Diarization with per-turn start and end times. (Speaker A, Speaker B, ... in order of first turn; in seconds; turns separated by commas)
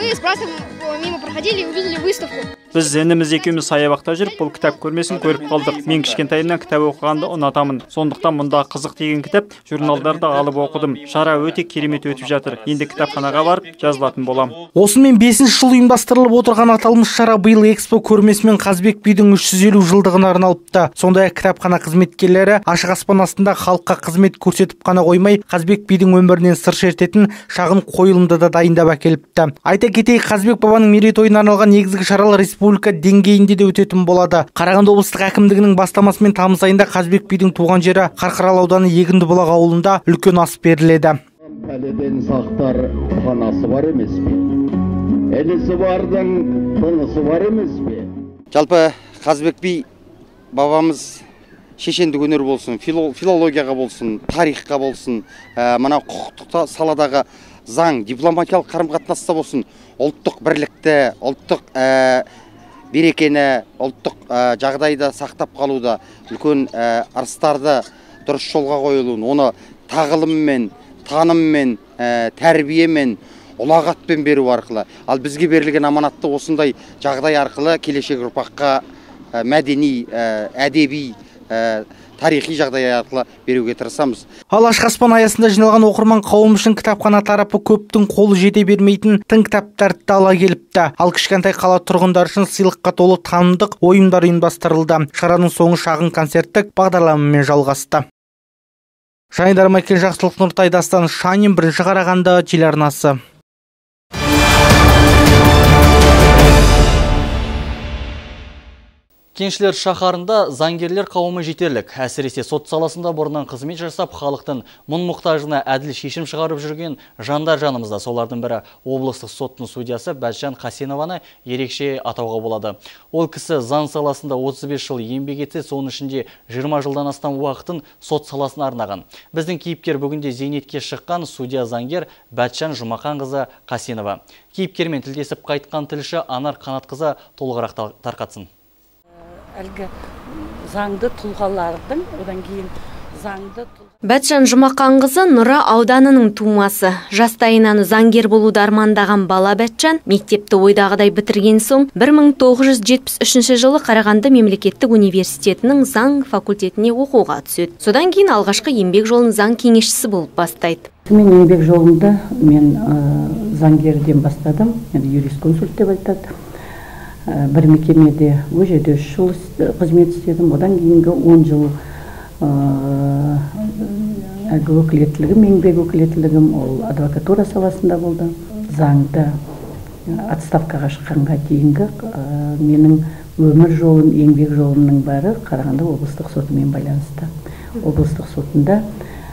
Speaker A: 2.7-14.5, Speaker B: 14.8-41.2, Speaker C: 41.5-44.5, Speaker C: 45.3-48.1, Speaker D: 48.5-49.8, Speaker D: 50.5-51.2, Speaker D: 51.8-62.2, Speaker D: 62.9-78.8, Speaker D: 79.3-84.2, Speaker B: 84.5-98.0, Speaker B: 99.3-103.2, Speaker E: 109.3-138.5, Speaker F: 139.6-143.7, Speaker G: 144.0-160.9, Speaker F: 161.1-166.3, Speaker F: 167.3-171.7, Speaker F: 172.4-179.3, Speaker F: 180.3-187.3, Speaker F: 187.8-188.8